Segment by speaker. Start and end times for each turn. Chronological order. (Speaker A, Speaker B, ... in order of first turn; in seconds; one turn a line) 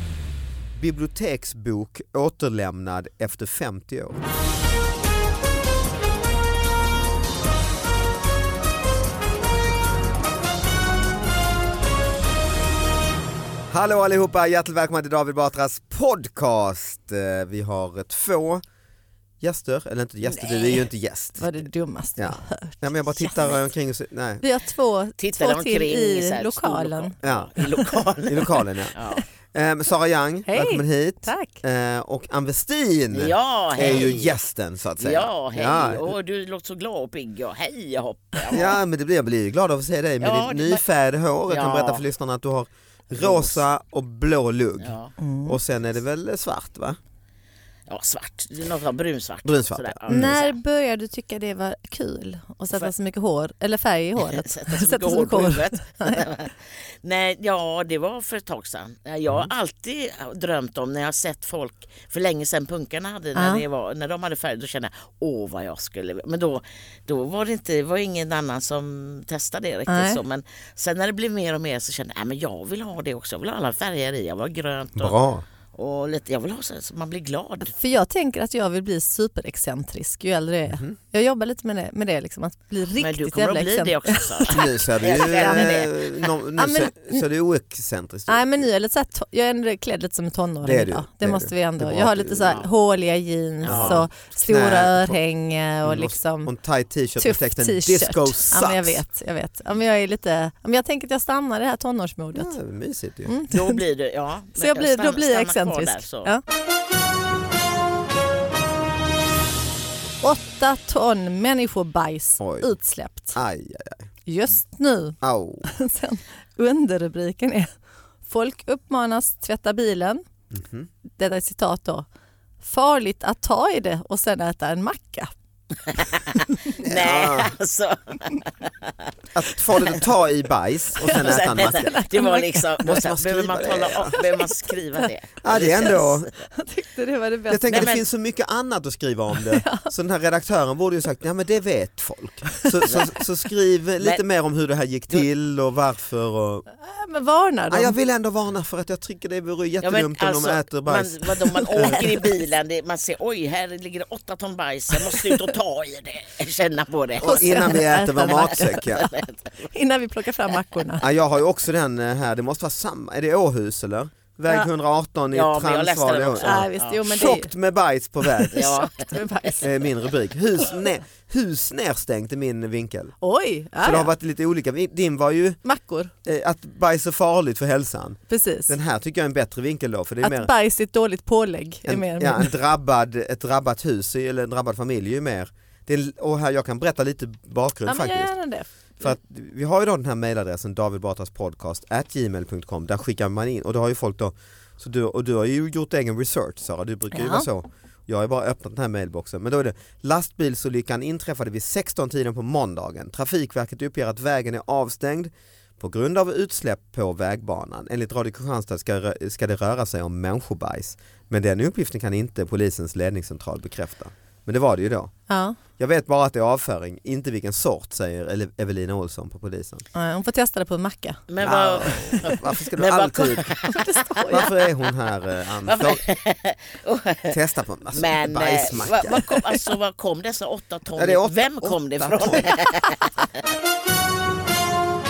Speaker A: 0.8-4.2
Speaker A: 13.7-18.6
Speaker A: 19.4-21.6
Speaker B: 20.2-20.8
Speaker C: 21.4-23.5
Speaker A: 22.2-24.4
Speaker C: 24.4-27.9
Speaker B: 25.2-29.2
Speaker A: 27.2-27.5
Speaker A: 28.2-29.0
Speaker A: 29.5-36.1
Speaker C: 30.5-31.6
Speaker B: 33.1-34.4
Speaker B: 35.0-38.8
Speaker A: 38.5-47.0
Speaker B: 40.2-40.8
Speaker B: 41.5-42.0
Speaker B: 43.1-43.6
Speaker B: 44.8-45.1
Speaker C: 45.2-45.6
Speaker B: 47.9-50.5
Speaker A: 49.4-50.3
Speaker C: 50.1-56.3
Speaker B: 54.2-75.1
Speaker C: 63.4-63.6
Speaker C: 69.9-70.2
Speaker A: 75.0-75.5
Speaker B: 75.7-77.7
Speaker C: 77.7-84.7
Speaker A: 80.7-81.0
Speaker B: 83.0-86.3
Speaker A: 84.5-88.5
Speaker C: 85.2-85.6
Speaker C: 86.6-87.2
Speaker C: 88.3-96.5
Speaker A: 90.6-92.7
Speaker B: 93.6-94.0
Speaker A: 93.7-95.2
Speaker A: 95.8-99.0
Speaker C: 97.2-102.5
Speaker A: 102.3-103.3
Speaker C: 103.2-103.8
Speaker B: 103.5-106.3
Speaker C: 104.6-106.4
Speaker C: 110.2-113.4
Speaker A: 112.4-112.7
Speaker A: 113.3-114.1
Speaker C: 114.3-117.7
Speaker A: 115.2-115.7
Speaker C: 118.2-120.2
Speaker A: 120.5-120.9
Speaker C: 121.2-122.1
Speaker C: 122.6-125.3
Speaker B: 125.9-129.1
Speaker A: 126.8-127.5
Speaker A: 129.3-132.0
Speaker C: 131.0-132.8
Speaker B: 131.0-136.3
Speaker A: 132.8-134.2
Speaker C: 134.1-137.9
Speaker A: 135.4-136.3
Speaker A: 137.5-146.6
Speaker B: 137.7-138.0
Speaker C: 139.5-139.9
Speaker B: 142.8-143.1
Speaker C: 146.8-147.9
Speaker A: 147.7-152.1
Speaker B: 149.8-159.7
Speaker C: 151.6-152.3
Speaker C: 155.0-155.4
Speaker A: 157.2-159.1
Speaker C: 157.2-158.9
Speaker C: 159.7-161.0
Speaker A: 161.0-168.7
Speaker B: 165.3-167.0
Speaker C: 166.4-167.5
Speaker C: 168.2-169.7
Speaker B: 168.5-169.5
Speaker A: 169.6-173.1
Speaker C: 173.2-174.1
Speaker A: 173.8-175.6
Speaker C: 175.6-176.1
Speaker A: 176.2-180.5
Speaker C: 178.3-178.7
Speaker C: 180.2-182.5
Speaker A: 181.8-188.3
Speaker C: 187.8-189.1
Speaker A: 189.0-215.1
Speaker C: 197.1-197.5
Speaker C: 215.3-215.6
Speaker A: 215.8-219.8
Speaker C: 219.9-221.2
Speaker B: 221.3-224.5
Speaker A: 221.4-223.5
Speaker C: 223.7-224.5
Speaker A: 224.3-226.0
Speaker B: 225.6-227.4
Speaker A: 227.3-229.3
Speaker B: 227.9-233.3
Speaker A: 230.9-232.6